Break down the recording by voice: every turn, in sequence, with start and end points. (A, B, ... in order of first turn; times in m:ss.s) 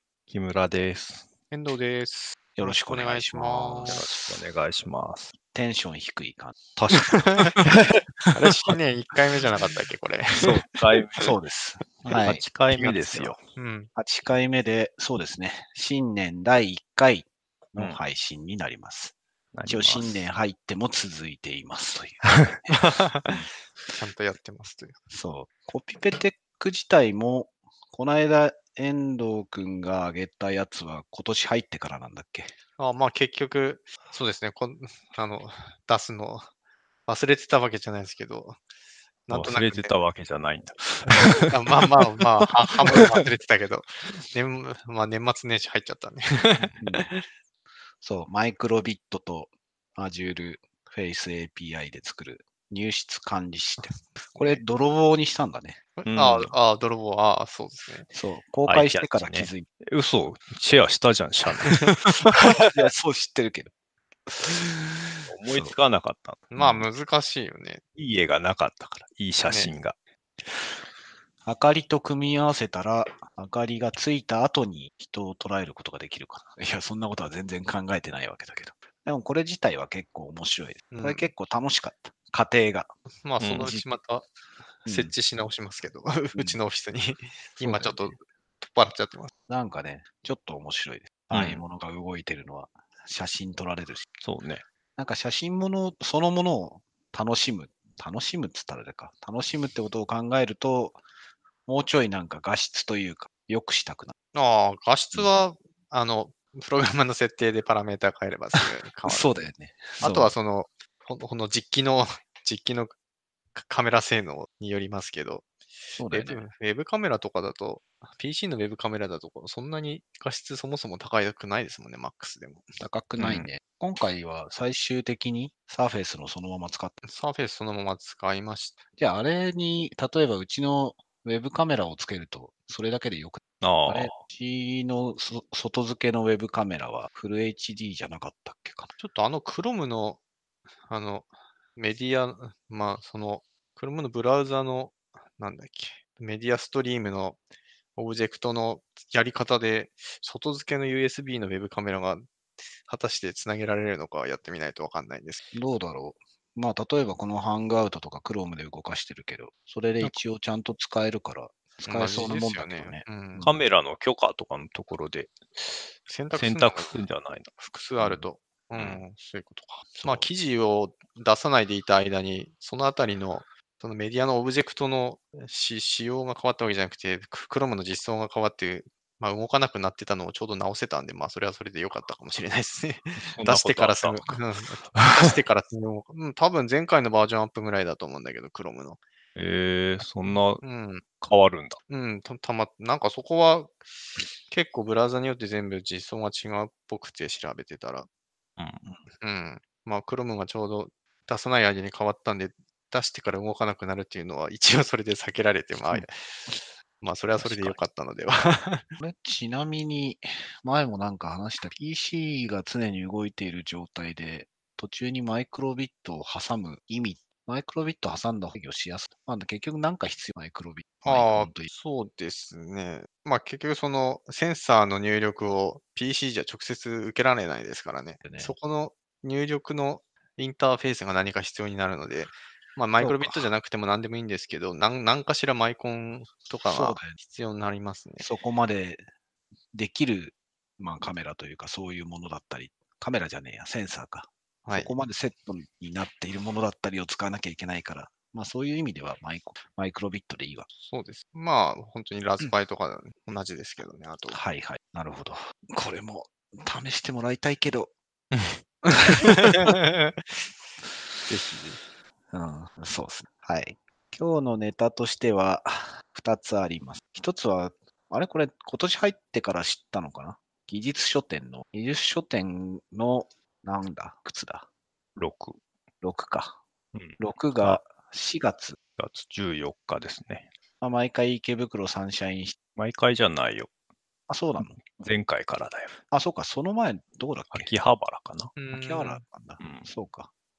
0:00.3-0:01.3 A
0:01.5-0:04.0 B
0:02.6-0:04.4 C
0:03.8-0:05.3 A
0:05.5-0:07.2 C
0:06.8-0:08.0 A
0:07.0-0:07.6 B
0:08.3-0:10.7 B
0:10.4-0:11.4 A
0:11.2-0:12.4 C
0:12.0-0:13.4 A
0:12.7-0:13.9 B
0:14.0-0:19.2 C
0:19.5-0:20.2 A
0:19.7-0:23.5 C
0:22.7-0:23.4 B
0:23.9-0:25.0 B
0:25.1-0:32.5 C
0:32.8-0:36.5 B
0:37.1-0:38.6 B
0:39.3-0:40.0 B
0:39.3-0:41.7 A
0:41.5-0:47.2 B
0:42.9-0:43.2 A
0:46.7-0:47.1 C
0:48.0-0:55.8 C
0:56.0-0:58.1 B
0:56.1-0:56.5 A
0:58.1-0:59.7 C
0:58.7-1:02.1 A
1:02.3-1:03.7 C
1:04.3-1:05.8 C
1:05.3-1:06.5 A
1:06.5-1:07.8 B
1:06.6-1:06.9 C
1:08.0-1:10.8 A
1:11.4-1:22.9 C
1:20.9-1:21.3 B
1:23.2-1:24.3 B
1:23.4-1:23.7 A
1:23.5-1:23.9 C
1:24.8-1:29.3 B
1:24.9-1:25.1 C
1:27.6-1:28.2 C
1:29.5-1:34.1 C
1:31.3-1:31.6 A
1:34.2-1:34.6 A
1:35.0-1:41.0 C
1:41.7-1:44.1 C
1:44.3-1:49.5 B
1:48.6-1:50.3 C
1:50.0-1:53.0 B
1:53.6-1:55.5 B
1:56.0-1:56.4 C
1:56.1-2:02.8 B
2:02.8-2:07.0 C
2:07.0-2:08.8 B
2:09.0-2:18.9 C
2:13.6-2:14.2 A
2:19.0-2:20.2 B
2:20.9-2:27.4 B
2:28.0-2:32.3 B
2:32.9-2:35.5 B
2:35.5-2:43.4 C
2:41.8-2:43.5 B
2:43.4-2:47.5 A
2:46.1-2:47.0 B
2:47.6-3:09.0 B
2:48.0-2:48.2 C
2:50.0-2:50.2 C
3:03.4-3:04.3 A
3:09.4-3:10.6 A
3:10.2-3:11.1 B
3:11.2-3:11.8 A
3:11.9-3:13.8 B
3:14.5-3:18.1 B
3:18.6-3:18.8 A
3:19.2-3:26.4 B
3:27.0-3:28.9 B
3:27.4-3:27.8 A
3:29.0-3:41.7 C
3:41.0-3:58.3 B
3:48.2-3:48.6 C
3:53.0-3:53.5 C
3:56.7-3:57.2 C
3:58.2-3:59.0 C
3:59.7-4:10.7 C
4:04.6-4:04.9 B
4:10.8-4:14.4 B
4:14.3-4:17.9 C
4:18.8-4:19.8 C
4:19.4-4:20.2 B
4:21.3-4:21.8 A
4:22.3-4:34.7 C
4:35.2-4:35.6 A
4:36.0-4:36.6 C
4:36.9-4:37.8 A
4:37.2-4:38.8 C
4:39.0-4:40.5 A
4:40.8-4:42.6 C
4:42.8-4:43.7 A
4:44.3-4:44.8 C
4:44.6-4:46.0 A
4:46.1-4:47.8 C
4:47.5-4:48.5 A
4:48.6-4:49.2 B
4:48.7-4:50.3 C
4:49.6-4:49.9 A